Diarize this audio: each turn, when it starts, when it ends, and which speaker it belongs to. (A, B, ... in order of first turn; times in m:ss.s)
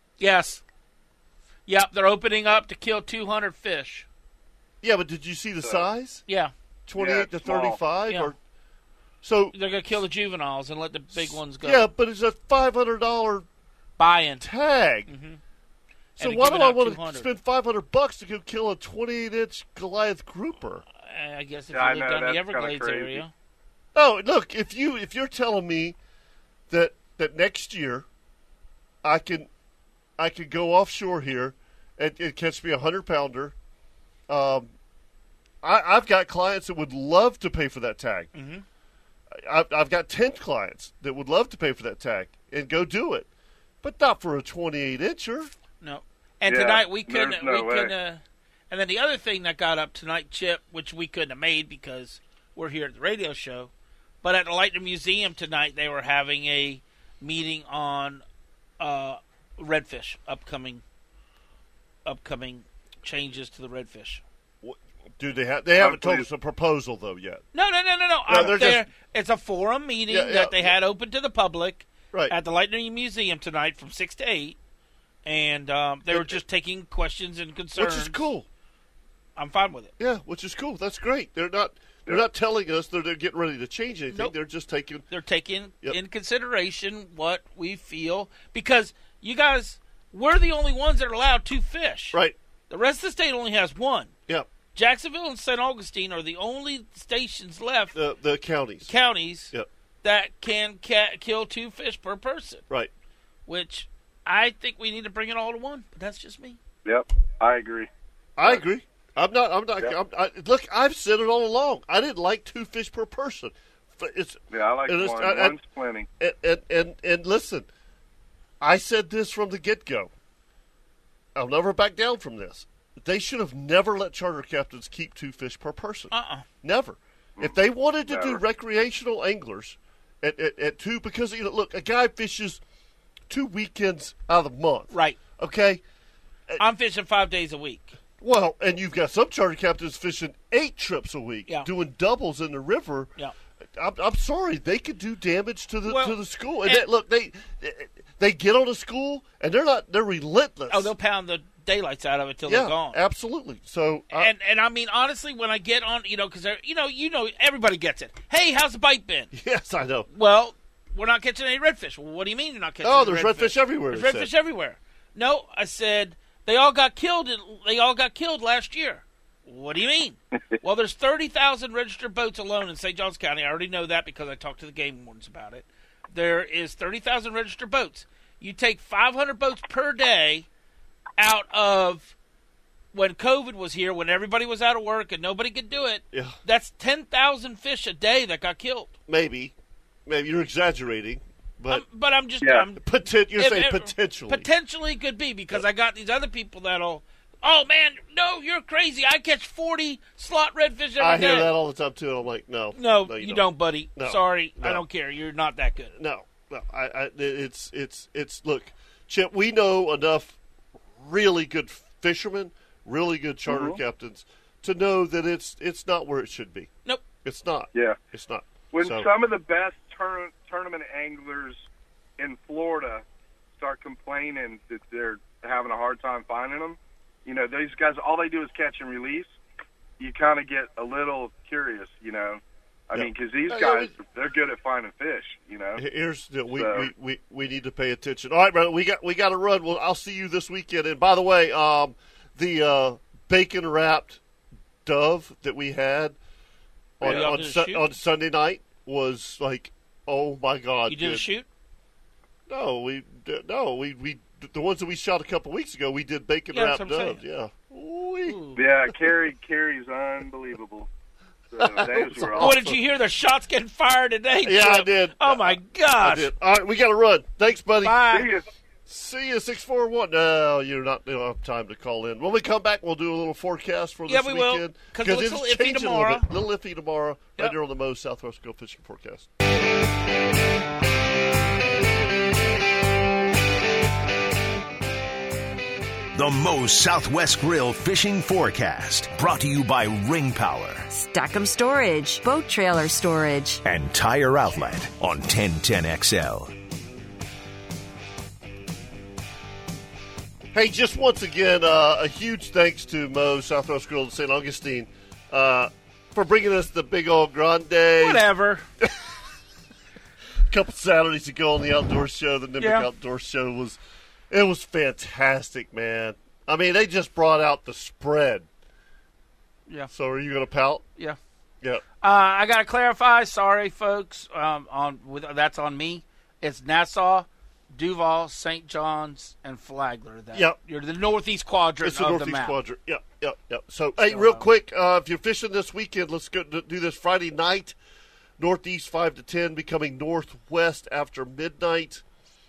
0:00.2-0:00.6 A
0:01.6-0:04.0 A
0:04.8-0:06.2 B
0:06.3-0:06.5 A
0:06.9-0:08.4 B
0:07.0-0:07.8 C
0:08.1-0:08.3 A
0:09.2-0:09.6 B
0:09.5-0:11.9 A
0:11.1-0:13.4 B
0:14.0-0:14.4 A
0:14.4-0:15.1 B
0:15.1-0:15.4 A
0:16.2-0:17.3 A
0:16.2-0:20.8 B
0:21.0-0:23.3 A
0:21.7-0:23.2 C
0:23.9-0:26.0 B
0:26.7-0:28.0 B
0:29.0-0:29.5 B
0:30.2-0:33.5 B
0:34.3-0:34.7 B
0:35.6-0:38.3 B
0:38.3-0:38.6 A
0:39.3-0:43.3 B
0:43.8-0:45.5 B
0:45.8-0:53.7 A
0:46.5-0:47.9 C
0:54.2-0:58.2 A
0:58.8-1:00.8 A
1:02.0-1:04.2 A
1:04.6-1:07.4 B
1:05.7-1:06.3 C
1:07.5-1:14.6 A
1:08.2-1:08.9 B
1:10.1-1:10.7 B
1:15.2-1:18.2 A
1:16.1-1:16.4 B
1:17.8-1:18.4 B
1:19.4-1:19.9 A
1:20.0-1:25.0 B
1:25.1-1:32.2 A
1:32.7-1:34.1 A
1:34.7-1:38.0 A
1:37.9-1:38.9 B
1:38.8-1:42.6 A
1:43.4-1:46.6 A
1:46.8-1:47.9 C
1:48.4-1:55.6 B
1:54.5-1:56.1 C
1:56.2-1:57.7 B
1:58.6-2:00.1 B
2:01.4-2:12.6 B
2:06.1-2:06.5 A
2:07.4-2:08.4 C
2:13.3-2:15.8 B
2:14.9-2:15.2 A
2:16.6-2:17.9 A
2:18.2-2:23.1 B
2:23.8-2:30.9 B
2:25.8-2:26.9 A
2:30.7-2:33.0 A
2:32.5-2:34.3 B
2:34.1-2:39.3 A
2:39.3-2:40.1 B
2:40.1-3:00.5 A
2:42.8-2:44.3 B
3:01.2-3:02.1 A
3:02.9-3:08.9 A
3:06.1-3:06.4 B
3:09.1-3:09.5 B
3:10.1-3:11.8 B
3:11.7-3:12.8 A
3:12.4-3:12.7 C
3:12.8-3:14.5 B
3:13.4-3:21.5 A
3:21.0-3:23.4 B
3:22.7-3:25.9 A
3:24.0-3:24.8 B
3:26.0-3:30.4 B
3:31.0-3:36.7 B
3:33.5-3:33.8 C
3:37.2-3:39.1 B
3:38.7-3:41.7 C
3:42.2-3:43.0 C
3:43.6-3:49.3 C
3:50.0-3:55.8 C
3:52.9-3:53.9 B
3:55.8-4:04.2 B
3:56.5-3:56.9 C
4:04.8-4:06.2 B
4:07.0-4:11.2 B
4:07.0-4:07.3 C
4:07.0-4:07.9 A
4:10.9-4:11.5 A
4:12.5-4:18.9 B
4:16.5-4:17.2 A
4:18.2-4:18.6 A
4:18.6-4:20.9 C
4:21.5-4:22.6 C
4:21.6-4:22.8 B
4:22.4-4:26.3 A
4:24.4-4:28.1 B
4:27.8-4:28.3 A
4:28.1-4:28.4 C
4:28.8-4:39.3 B
4:34.1-4:36.3 A
4:46.1-4:50.8 D
4:50.9-4:53.6 E
4:53.6-4:56.5 D
5:00.5-5:08.2 B
5:08.0-5:08.6 A
5:10.5-5:13.8 B
5:12.6-5:12.9 A
5:14.3-5:18.5 B
5:19.9-5:20.8 B
5:22.0-5:32.6 A
5:31.8-5:37.7 B
5:34.0-5:34.5 A
5:38.4-5:42.0 B